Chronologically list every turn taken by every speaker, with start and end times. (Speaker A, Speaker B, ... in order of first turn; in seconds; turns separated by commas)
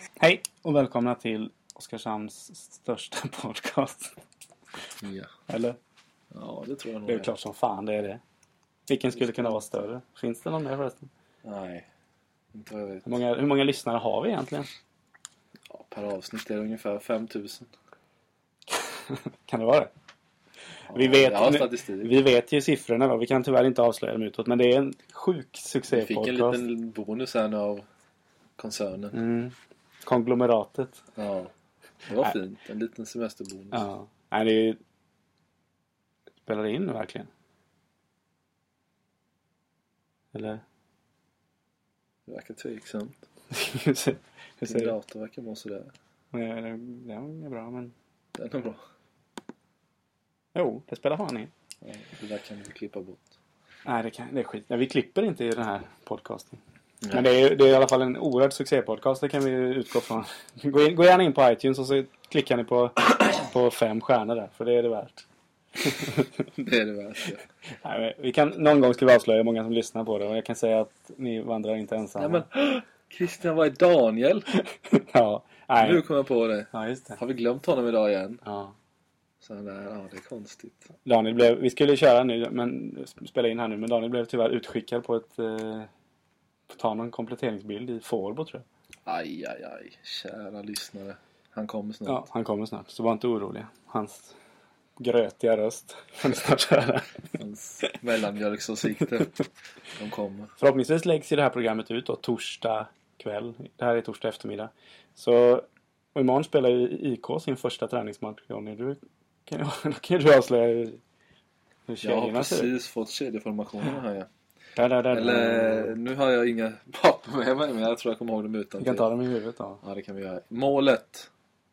Speaker A: 0.2-4.1, Speaker B: 5.0-5.3, Speaker A: 5.5-5.8, Speaker B: 6.3-7.3, Speaker A: 7.1-8.2, Speaker A: 8.9-11.1, Speaker B: 9.2-9.6, Speaker B: 11.4-11.8, Speaker B: 12.5-13.2, Speaker A: 13.0-14.7, Speaker B: 15.7-17.7, Speaker A: 19.1-19.9, Speaker B: 20.9-22.1, Speaker A: 20.9-26.6, Speaker B: 25.9-27.9, Speaker B: 28.6-29.2, Speaker A: 29.1-29.5, Speaker A: 30.0-31.0, Speaker B: 31.1-31.5, Speaker B: 32.0-33.8, Speaker A: 33.7-34.8, Speaker A: 36.4-37.3, Speaker A: 40.3-40.6, Speaker B: 42.3-43.2, Speaker A: 43.5-44.9, Speaker B: 44.6-45.9, Speaker A: 46.3-47.9, Speaker B: 48.4-48.8, Speaker A: 50.5-51.5, Speaker B: 51.8-53.2, Speaker A: 53.9-56.6, Speaker B: 57.0-57.3, Speaker A: 57.1-65.2, Speaker A: 65.8-66.2, Speaker B: 66.5-67.4, Speaker A: 67.8-72.4, Speaker B: 72.2-74.5, Speaker A: 74.5-76.0, Speaker B: 75.8-78.4, Speaker A: 76.7-77.2, Speaker A: 78.4-78.7, Speaker B: 79.4-80.8, Speaker A: 81.0-85.9, Speaker A: 86.7-88.6, Speaker B: 89.0-92.2, Speaker A: 92.1-94.3, Speaker A: 95.0-97.2, Speaker B: 97.4-99.3, Speaker B: 100.0-100.5, Speaker A: 100.6-111.0, Speaker A: 111.9-112.7, Speaker B: 112.0-114.3, Speaker A: 114.8-116.0, Speaker B: 115.1-119.1, Speaker A: 118.8-119.8, Speaker B: 119.8-121.3